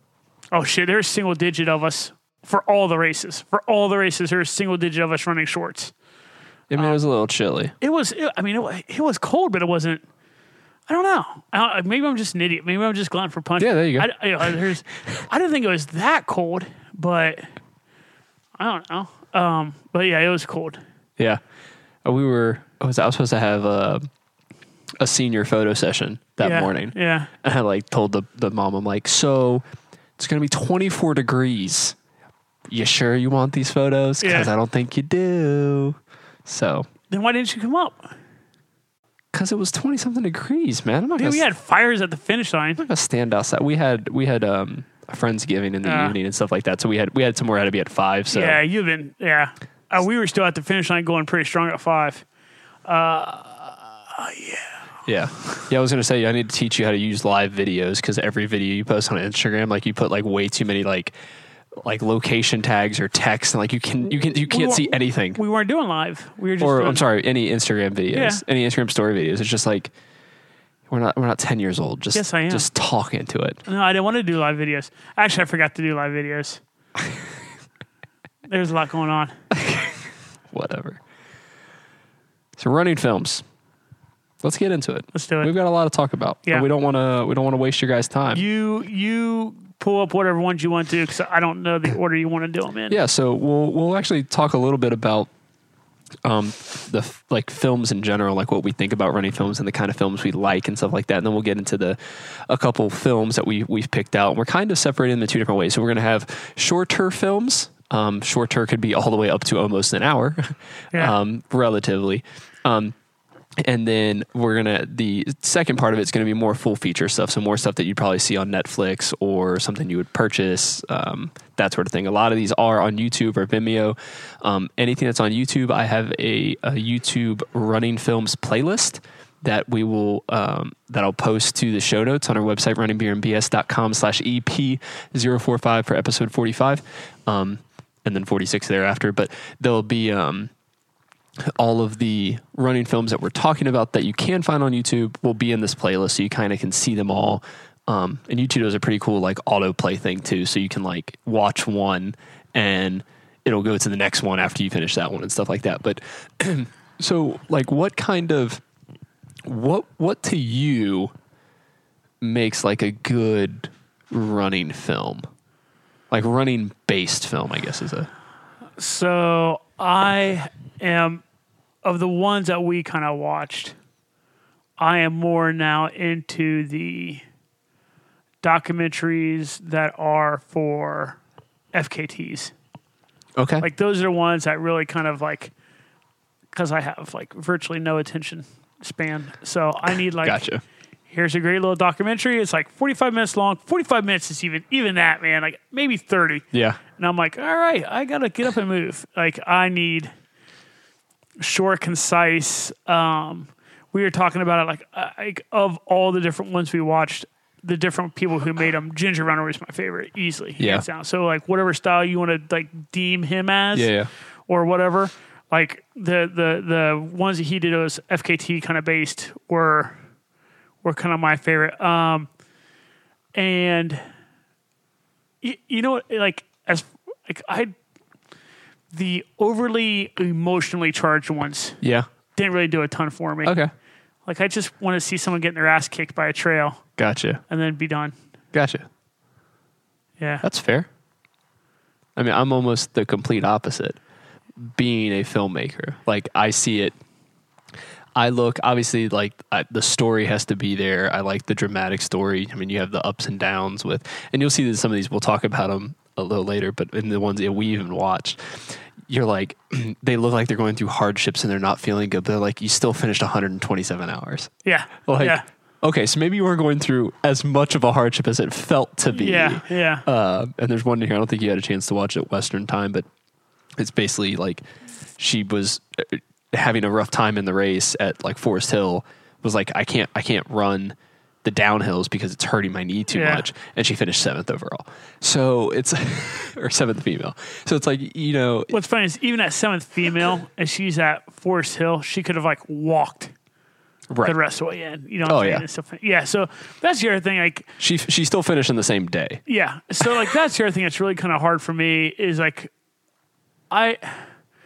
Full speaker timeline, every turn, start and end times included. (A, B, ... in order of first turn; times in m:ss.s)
0:00.5-0:05.9 A
0:06.7-0:07.7 B
0:07.8-0:10.0 A
0:10.9-0:17.5 A
0:13.6-0:14.1 B
0:18.6-0:20.8 A
0:22.0-0:24.0 B
0:25.0-0:29.6 B
0:26.4-0:27.3 A
0:30.2-0:32.0 B
0:32.7-0:36.9 B
0:34.2-0:34.5 A
0:37.1-0:38.1 A
0:39.3-0:41.4 B
0:41.2-0:42.8 A
0:42.8-0:48.6 B
0:45.8-0:46.2 A
0:48.3-0:52.2 A
0:52.8-0:54.8 A
0:55.0-1:01.1 B
1:01.8-1:05.4 B
1:04.0-1:07.0 A
1:06.6-1:09.9 B
1:08.1-1:08.4 A
1:10.9-1:13.6 B
1:12.1-1:12.7 A
1:13.6-1:16.6 A
1:18.4-1:19.3 A
1:19.5-1:20.0 B
1:20.5-1:21.0 B
1:22.6-1:23.4 B
1:24.4-1:28.4 B
1:25.1-1:25.5 A
1:28.3-1:33.0 A
1:32.9-1:35.3 B
1:36.2-1:52.9 B
1:53.6-2:20.5 B
2:21.4-2:38.6 B
2:39.4-2:41.1 B
2:42.2-2:45.3 B
2:46.1-2:48.1 B
2:48.8-2:51.2 A
2:51.8-2:53.8 A
2:54.8-2:57.2 A
2:58.4-3:01.2 A
3:01.7-3:02.5 A
3:03.4-3:03.7 B
3:03.6-3:05.5 A
3:06.5-3:10.4 A
3:10.2-3:10.6 B
3:11.1-3:20.1 A
3:16.5-3:16.8 B
3:21.4-3:33.9 A
3:30.6-3:30.8 B
3:33.7-3:34.1 B
3:34.5-3:40.0 A
3:40.8-3:42.3 A
3:43.4-3:44.0 A
3:45.4-3:47.7 A
3:48.9-3:51.8 A
3:51.8-3:52.1 B
3:52.4-3:53.5 A
3:53.4-3:53.7 B
3:54.2-3:56.8 A
3:57.0-3:57.4 B
3:57.5-3:58.1 A
3:58.5-3:58.9 B
4:00.2-4:00.4 A
4:00.4-4:00.9 B
4:02.2-4:04.0 B
4:04.6-4:06.9 B
4:08.2-4:24.5 B
4:24.6-4:25.4 A
4:25.0-4:33.0 B
4:29.1-4:30.0 A
4:33.8-4:34.6 B
4:35.2-4:48.7 B
4:43.1-4:43.4 A
4:48.7-4:53.3 A
4:54.1-4:54.4 B
4:54.2-4:57.7 A
4:55.2-4:55.6 B
4:57.8-4:59.4 B
4:59.5-5:02.7 A
5:03.7-5:04.3 A